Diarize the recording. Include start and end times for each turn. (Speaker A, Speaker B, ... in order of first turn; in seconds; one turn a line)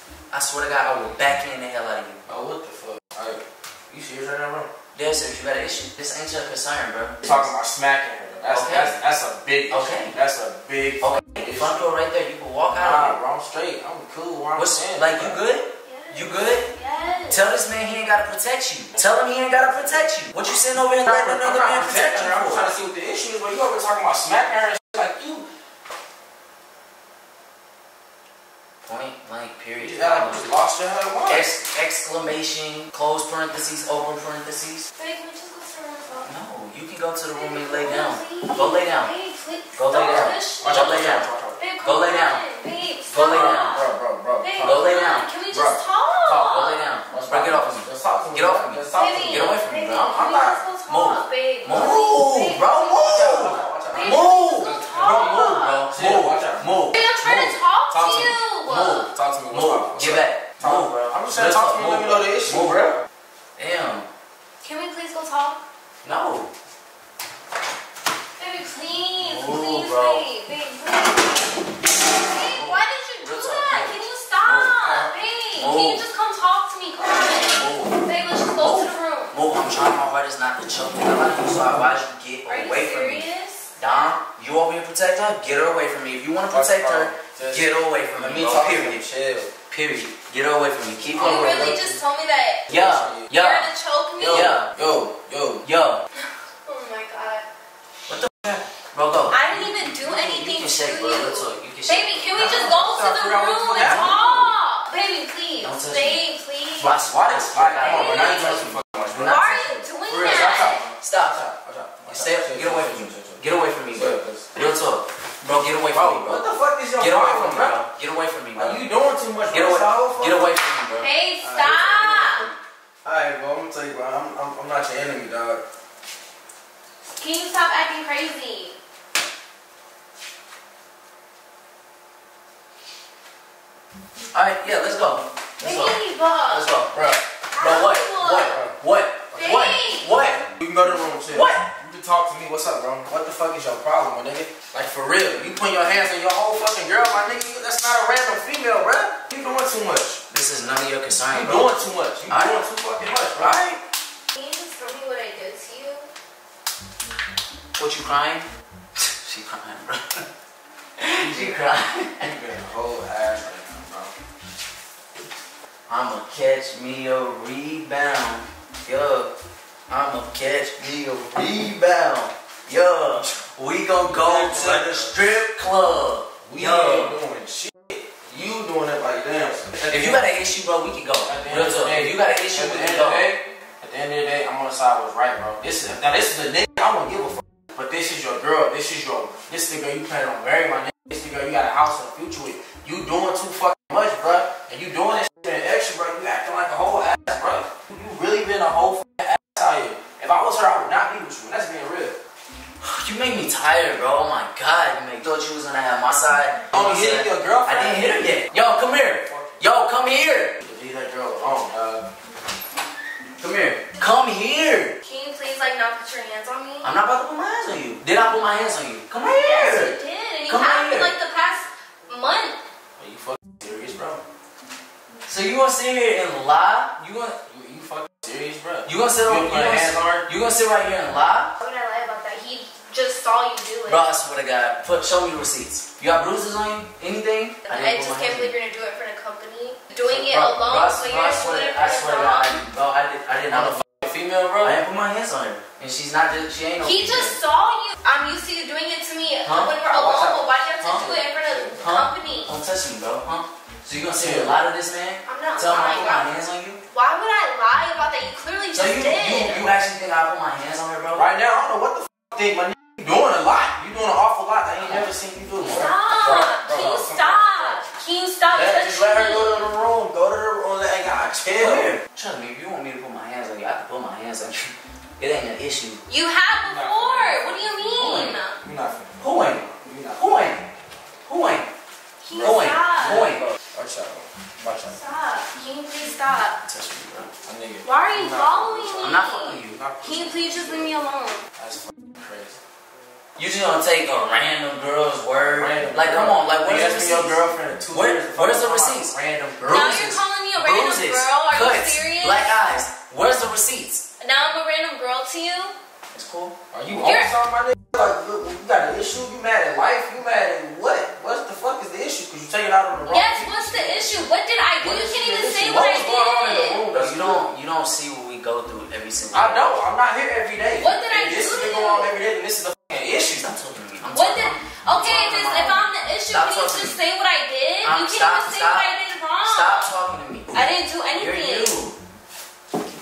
Speaker A: 0.3-2.2
Speaker B: 2.3-4.7
Speaker A: 5.0-7.5
Speaker B: 7.2-11.8
Speaker A: 8.5-9.0
Speaker A: 9.7-10.1
Speaker A: 11.0-13.2
Speaker B: 12.8-15.4
Speaker A: 14.6-16.7
Speaker C: 15.8-17.5
Speaker A: 17.3-22.7
Speaker B: 18.9-20.1
Speaker B: 21.0-25.5
Speaker A: 28.9-30.4
Speaker B: 29.8-31.5
Speaker A: 31.3-34.9
Speaker C: 35.0-36.3
Speaker A: 36.2-39.1
Speaker C: 37.3-43.9
Speaker A: 39.8-41.3
Speaker B: 40.6-41.6
Speaker A: 41.8-42.4
Speaker A: 43.1-43.7
Speaker B: 43.2-44.9
Speaker C: 44.4-46.9
Speaker A: 44.6-45.3
Speaker B: 45.5-45.8
Speaker A: 46.3-50.2
Speaker B: 47.1-50.6
Speaker C: 49.0-53.3
Speaker A: 50.9-57.5
Speaker B: 51.7-52.0
Speaker B: 53.0-56.7
Speaker C: 54.0-55.9
Speaker C: 56.9-59.1
Speaker B: 57.9-58.4
Speaker A: 58.7-62.9
Speaker B: 59.1-63.0
Speaker A: 63.6-64.1
Speaker C: 64.6-65.6
Speaker A: 66.0-66.5
Speaker C: 68.4-79.3
Speaker A: 69.2-70.3
Speaker A: 72.4-76.1
Speaker A: 77.5-83.3
Speaker C: 82.5-83.7
Speaker A: 83.8-89.0
Speaker B: 86.5-89.5
Speaker A: 89.7-91.8
Speaker B: 91.0-92.0
Speaker C: 91.2-92.7
Speaker B: 92.7-93.3
Speaker A: 92.7-93.7
Speaker C: 93.3-94.5
Speaker B: 94.2-95.6
Speaker A: 94.3-94.7
Speaker A: 95.7-96.0
Speaker C: 96.7-97.5
Speaker A: 98.1-102.7
Speaker C: 99.3-107.0
Speaker B: 102.4-104.1
Speaker A: 103.8-104.5
Speaker A: 105.6-106.2
Speaker A: 106.8-111.4
Speaker B: 107.0-114.7
Speaker C: 107.8-108.4
Speaker C: 109.2-110.8
Speaker A: 112.1-116.4
Speaker B: 115.9-117.8
Speaker A: 117.0-118.8
Speaker B: 118.6-120.5
Speaker A: 119.5-121.1
Speaker C: 121.0-122.5
Speaker B: 121.4-125.6
Speaker C: 127.0-128.8
Speaker A: 134.3-135.9
Speaker C: 135.6-136.7
Speaker A: 136.5-140.5
Speaker B: 136.9-137.2
Speaker C: 137.5-138.6
Speaker B: 138.5-138.8
Speaker C: 139.3-140.3
Speaker B: 140.5-150.2
Speaker A: 141.3-141.7
Speaker A: 150.3-151.8
Speaker B: 151.3-153.6
Speaker A: 152.3-152.6
Speaker A: 153.4-153.8
Speaker C: 154.3-156.1
Speaker A: 157.8-160.3
Speaker A: 161.0-162.3
Speaker B: 161.2-161.6
Speaker B: 162.2-164.1
Speaker A: 165.9-169.3
Speaker A: 169.9-177.2
Speaker B: 170.8-171.7
Speaker B: 174.1-175.1
Speaker B: 176.4-180.2
Speaker A: 179.9-183.2
Speaker B: 181.3-202.2
Speaker A: 202.8-210.6
Speaker B: 206.7-209.6
Speaker B: 210.6-212.1
Speaker A: 213.4-214.9
Speaker C: 215.0-216.9
Speaker A: 216.8-219.9
Speaker C: 219.2-222.6
Speaker A: 220.5-221.1
Speaker B: 223.0-224.2
Speaker A: 225.3-227.4
Speaker B: 227.5-230.3
Speaker A: 228.9-231.5
Speaker C: 231.6-234.1
Speaker A: 233.9-238.5
Speaker C: 237.7-242.6
Speaker A: 240.1-243.8
Speaker B: 243.5-244.7
Speaker A: 244.6-247.4
Speaker C: 246.8-252.5
Speaker A: 249.4-249.7
Speaker B: 249.9-251.8
Speaker A: 250.8-251.1
Speaker A: 251.8-256.8
Speaker B: 254.1-254.5
Speaker C: 255.2-256.3
Speaker C: 256.9-259.7
Speaker A: 258.8-261.3
Speaker B: 261.2-267.8
Speaker A: 264.8-265.1
Speaker A: 265.6-267.0
Speaker C: 265.7-269.7
Speaker B: 268.5-272.0
Speaker A: 271.6-276.0
Speaker C: 276.1-278.6
Speaker B: 276.6-277.8
Speaker A: 278.0-278.4
Speaker B: 278.6-280.6
Speaker A: 279.2-280.6
Speaker A: 281.3-281.7
Speaker C: 282.2-283.3
Speaker B: 282.4-285.0
Speaker A: 282.4-283.5
Speaker C: 284.9-286.6
Speaker A: 286.7-287.3
Speaker B: 287.4-290.9
Speaker C: 287.8-291.4
Speaker A: 289.0-289.8
Speaker B: 291.6-292.6
Speaker A: 293.4-297.4
Speaker B: 295.6-299.9
Speaker A: 297.9-304.0
Speaker C: 299.7-302.6
Speaker C: 304.2-305.8
Speaker A: 306.1-306.6
Speaker B: 306.7-314.2
Speaker C: 307.0-307.3
Speaker C: 313.1-316.8
Speaker B: 314.8-317.4
Speaker A: 316.9-319.8
Speaker B: 319.3-323.5
Speaker C: 320.8-322.1
Speaker A: 323.4-327.0
Speaker C: 324.1-329.9
Speaker A: 327.8-328.9
Speaker A: 329.4-330.6
Speaker C: 330.5-331.8
Speaker A: 331.2-331.9